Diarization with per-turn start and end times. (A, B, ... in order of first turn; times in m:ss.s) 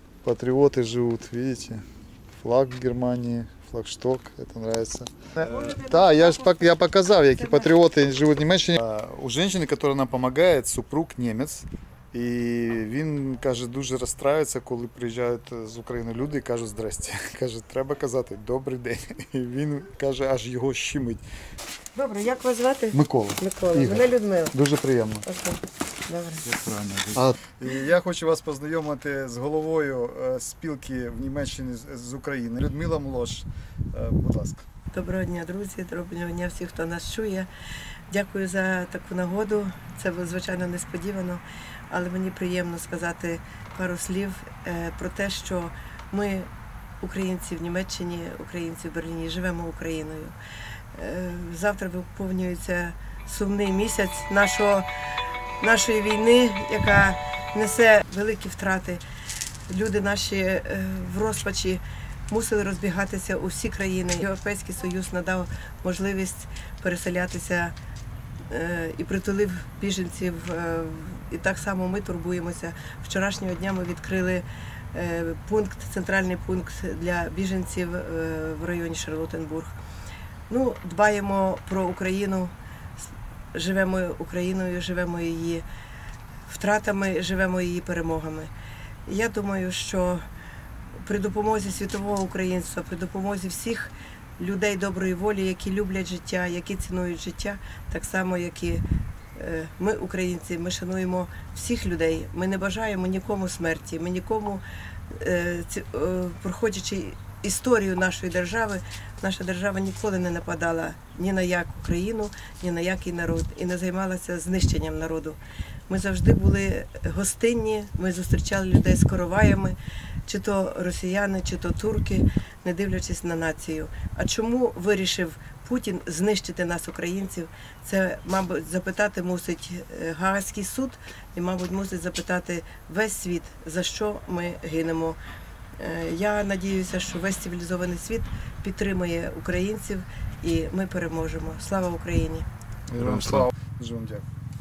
0:00.2-0:01.8 A
0:02.4-0:21.2 A
0:05.4-0:06.5 B
0:21.9-0:24.6 B
0:22.9-0:25.2 A
0:25.2-0:26.5 B
0:26.5-0:34.6 A
0:34.9-0:37.5 B
0:38.1-0:46.5 B
0:47.0-0:50.4 B
0:50.9-0:54.9 B
0:55.6-0:59.0 B
0:59.7-1:07.7 B
1:08.5-1:19.7 B
1:20.5-1:22.5 B
1:23.5-1:25.6 B
1:26.5-1:28.5 B
1:29.0-1:30.2 B
1:31.0-1:38.8 B
1:39.3-2:15.2 B
2:15.8-2:22.5 B
2:22.9-2:24.2 A